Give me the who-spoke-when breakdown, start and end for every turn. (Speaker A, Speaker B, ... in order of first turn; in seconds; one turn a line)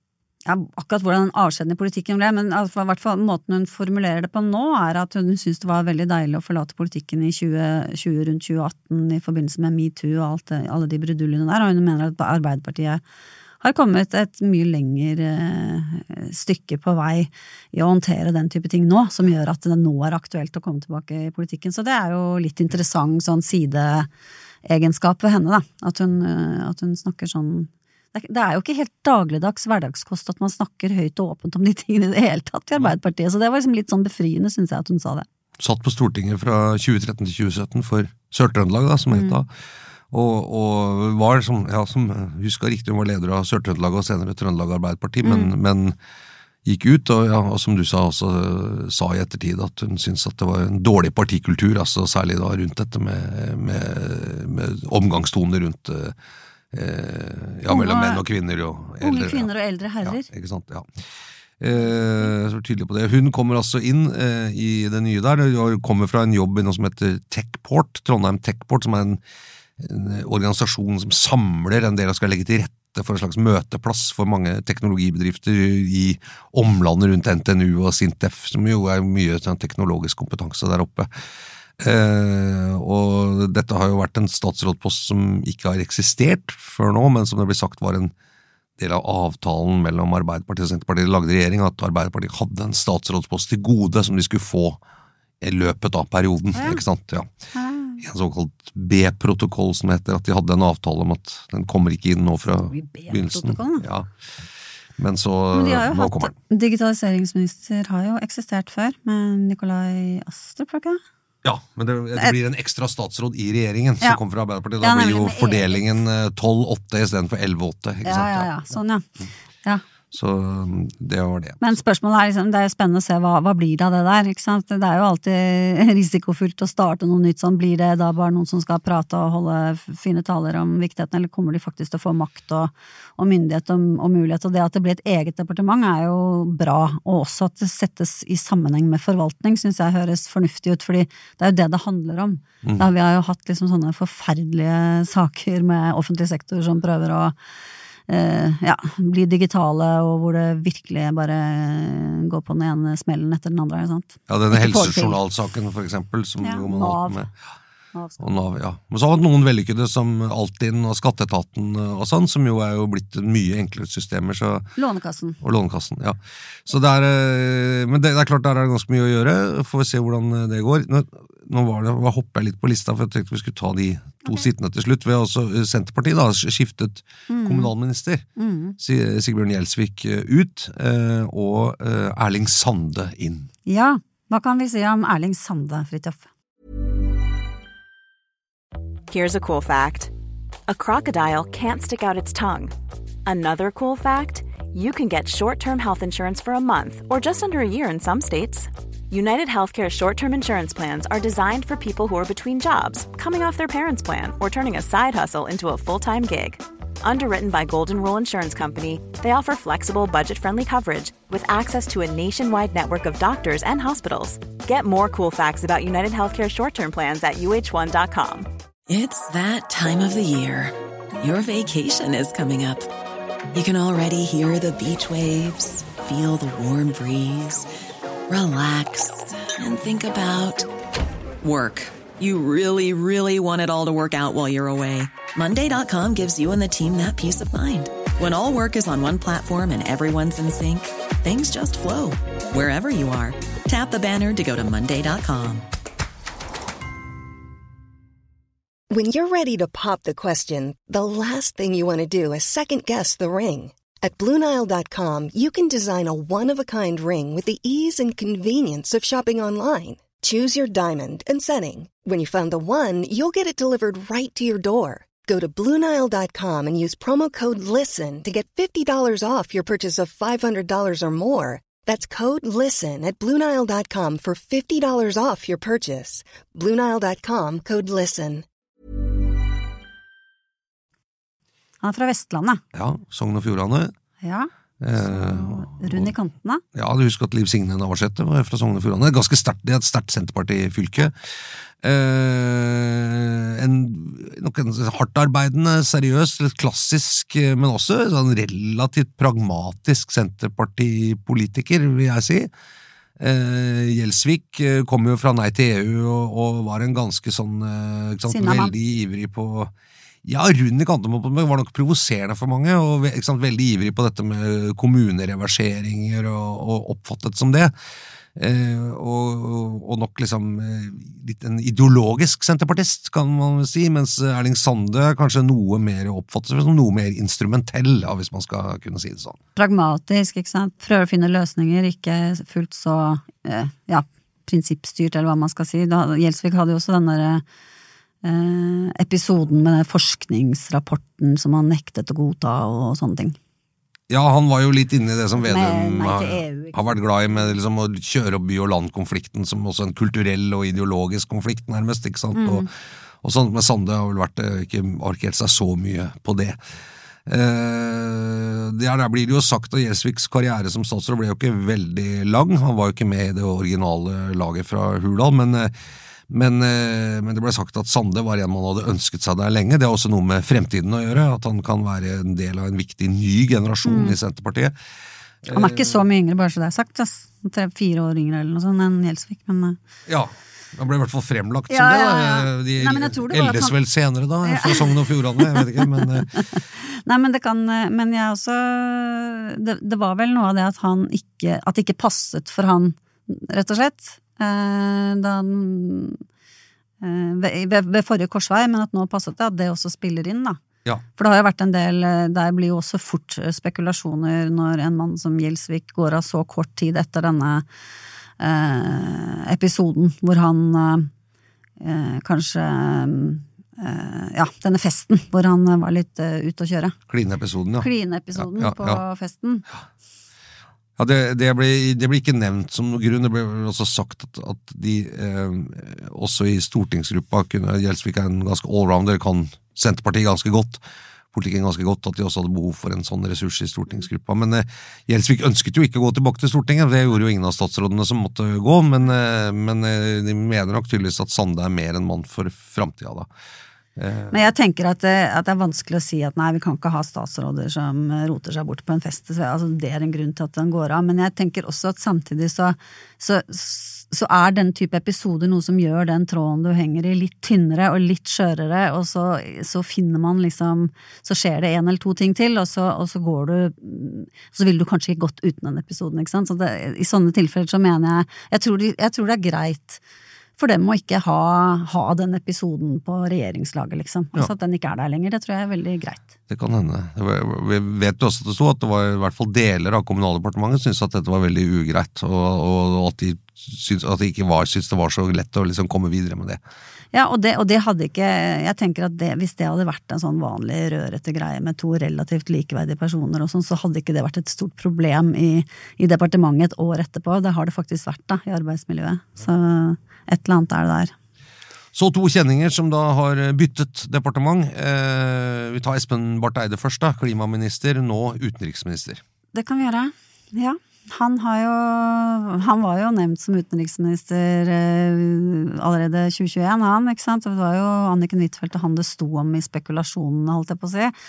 Speaker A: 0.5-13.0
Speaker A: 13.6-24.1
Speaker A: 24.6-35.2
Speaker B: 35.6-39.5
Speaker A: 39.1-39.4
Speaker B: 40.1-46.0
Speaker A: 45.2-45.5
Speaker B: 46.6-56.1
Speaker B: 56.7-59.5
Speaker A: 57.7-58.2
Speaker A: 59.0-60.3
Speaker B: 60.0-60.9
Speaker B: 61.6-69.2
Speaker B: 69.8-81.1
Speaker B: 81.8-88.1
Speaker B: 88.8-94.8
Speaker B: 95.4-97.3
Speaker A: 96.5-96.8
Speaker A: 97.5-98.0
Speaker B: 98.0-104.1
Speaker A: 102.5-103.8
Speaker B: 105.0-106.3
Speaker A: 105.5-111.0
Speaker B: 111.4-118.5
Speaker A: 114.8-115.8
Speaker A: 118.0-119.1
Speaker B: 120.1-121.8
Speaker A: 121.6-147.3
Speaker A: 148.1-155.2
Speaker B: 154.3-157.3
Speaker A: 156.4-157.3
Speaker A: 157.9-158.3
Speaker B: 158.2-164.7
Speaker A: 164.8-165.4
Speaker B: 165.4-178.2
Speaker A: 177.3-177.7
Speaker A: 178.4-178.8
Speaker B: 178.8-183.5
Speaker A: 183.7-186.2
Speaker C: 189.1-190.1
Speaker C: 190.7-192.7
Speaker C: 193.2-218.5
Speaker D: 218.9-222.9
Speaker D: 223.5-227.7
Speaker D: 228.3-230.7
Speaker D: 231.4-245.7
Speaker E: 248.9-278.4
Speaker A: 281.8-282.6
Speaker B: 282.7-283.9
Speaker A: 284.2-286.6
Speaker B: 284.8-286.1
Speaker B: 286.7-291.3
Speaker B: 291.8-302.5
Speaker B: 303.2-309.7
Speaker A: 308.3-308.7
Speaker B: 310.2-317.7
Speaker B: 318.4-329.4
Speaker A: 329.6-337.4
Speaker A: 338.2-343.4
Speaker B: 344.1-352.7
Speaker A: 345.4-347.0
Speaker A: 352.3-352.7
Speaker B: 353.2-356.6
Speaker B: 357.2-365.7
Speaker B: 366.3-374.7
Speaker A: 373.9-374.2
Speaker B: 375.4-376.0
Speaker A: 375.5-379.8
Speaker B: 380.1-386.3
Speaker A: 381.7-383.8
Speaker A: 384.4-396.2
Speaker A: 397.0-400.6
Speaker A: 401.1-407.6
Speaker A: 408.4-411.1
Speaker A: 411.8-416.9
Speaker B: 417.1-419.0
Speaker A: 417.8-419.6
Speaker B: 421.0-430.8
Speaker B: 431.3-443.3
Speaker B: 443.9-444.4
Speaker A: 444.3-470.0
Speaker A: 470.6-476.3
Speaker B: 476.5-486.6
Speaker A: 487.1-501.1
Speaker B: 501.9-509.2
Speaker A: 509.5-521.1